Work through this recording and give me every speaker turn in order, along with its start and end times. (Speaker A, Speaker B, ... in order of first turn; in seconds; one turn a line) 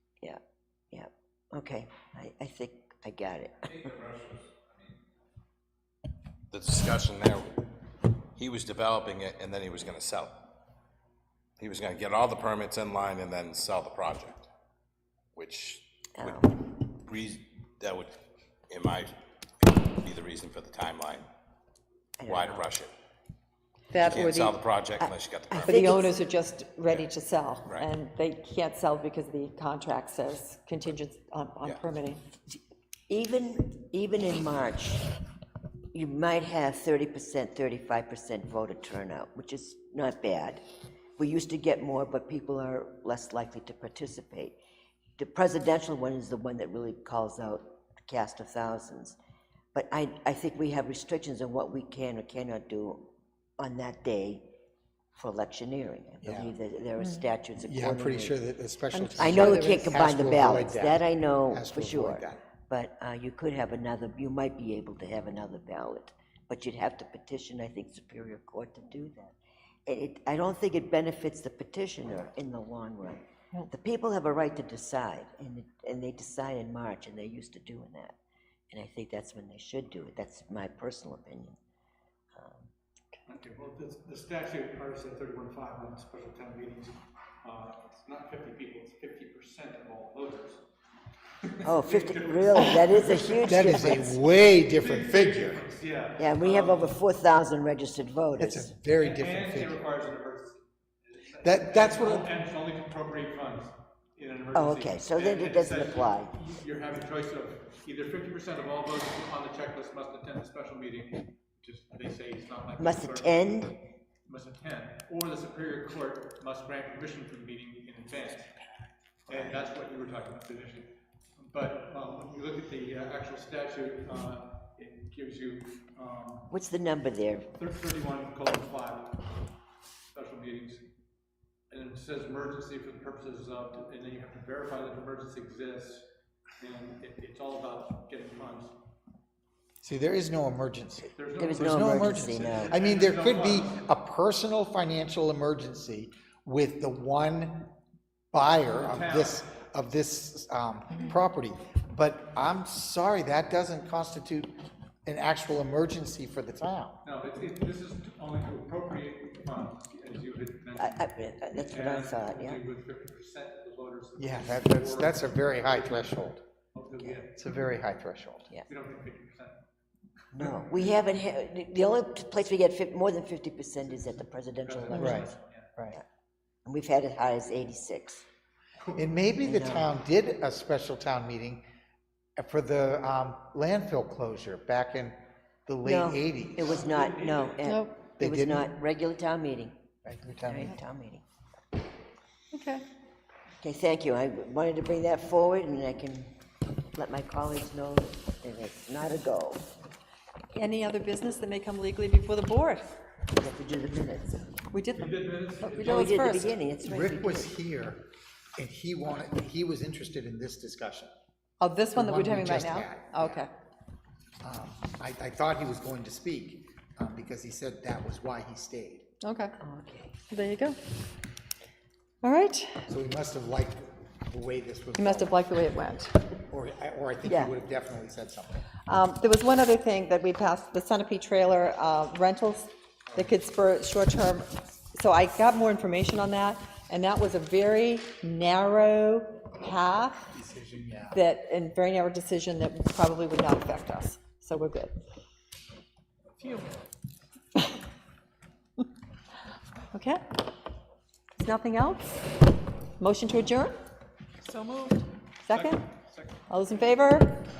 Speaker A: 0.9-4.0
Speaker B: 4.0-4.9
Speaker B: 6.5-7.7
Speaker B: 8.4-10.5
Speaker B: 11.6-14.5
Speaker B: 15.3-21.3
Speaker A: 16.2-16.5
Speaker A: 22.2-22.7
Speaker B: 22.2-22.9
Speaker C: 23.9-24.5
Speaker B: 24.0-25.7
Speaker A: 25.0-26.1
Speaker C: 25.6-32.2
Speaker A: 33.1-35.0
Speaker A: 35.9-40.6
Speaker A: 41.2-44.6
Speaker A: 45.2-49.1
Speaker A: 49.7-54.5
Speaker A: 55.1-58.4
Speaker D: 56.2-56.5
Speaker D: 57.7-62.4
Speaker C: 58.9-59.7
Speaker A: 59.2-78.2
Speaker A: 78.7-81.6
Speaker A: 82.3-82.7
Speaker E: 83.3-90.6
Speaker E: 91.4-93.3
Speaker A: 91.6-94.2
Speaker D: 92.9-95.6
Speaker E: 94.7-97.0
Speaker A: 96.2-98.7
Speaker D: 98.4-99.8
Speaker E: 99.0-113.7
Speaker D: 101.4-102.3
Speaker A: 104.5-106.3
Speaker A: 112.8-113.8
Speaker E: 114.2-118.5
Speaker E: 119.3-126.5
Speaker A: 119.3-119.6
Speaker A: 126.5-127.5
Speaker E: 127.5-129.3
Speaker E: 130.1-130.9
Speaker E: 131.7-136.1
Speaker E: 136.6-138.8
Speaker D: 139.8-147.7
Speaker E: 141.2-143.8
Speaker A: 141.4-142.7
Speaker D: 148.3-154.5
Speaker E: 148.8-149.5
Speaker D: 155.0-157.0
Speaker E: 157.0-161.1
Speaker A: 160.8-162.6
Speaker E: 161.6-165.2
Speaker D: 164.2-166.4
Speaker E: 166.7-167.6
Speaker D: 167.3-168.5
Speaker E: 168.7-169.6
Speaker A: 170.3-175.3
Speaker E: 174.6-175.7
Speaker D: 174.9-176.0
Speaker A: 176.6-178.2
Speaker E: 178.8-179.1
Speaker D: 178.9-181.6
Speaker A: 179.4-179.9
Speaker D: 182.4-186.8
Speaker A: 185.8-189.8
Speaker E: 186.6-187.6
Speaker C: 187.6-187.9
Speaker D: 188.2-188.7
Speaker D: 190.0-190.7
Speaker A: 190.4-191.2
Speaker C: 192.5-192.8
Speaker A: 193.6-196.3
Speaker A: 196.9-199.6
Speaker C: 200.5-202.9
Speaker A: 203.3-204.6
Speaker C: 204.7-206.6
Speaker E: 204.9-206.1
Speaker A: 205.8-207.6
Speaker D: 206.8-208.0
Speaker D: 208.6-211.1
Speaker C: 211.6-213.5
Speaker D: 211.9-213.4
Speaker D: 214.4-219.1
Speaker C: 219.2-219.5
Speaker A: 219.6-220.2
Speaker C: 220.2-220.8
Speaker C: 222.2-222.8
Speaker D: 222.9-225.6
Speaker C: 224.9-226.2
Speaker D: 226.5-228.7
Speaker A: 227.2-227.5
Speaker C: 228.9-240.3
Speaker D: 240.3-241.2
Speaker C: 241.1-244.9
Speaker E: 246.4-246.8
Speaker C: 249.9-250.2
Speaker C: 251.3-252.2
Speaker C: 253.0-253.8
Speaker E: 254.4-256.6
Speaker C: 255.4-255.8
Speaker C: 256.5-257.4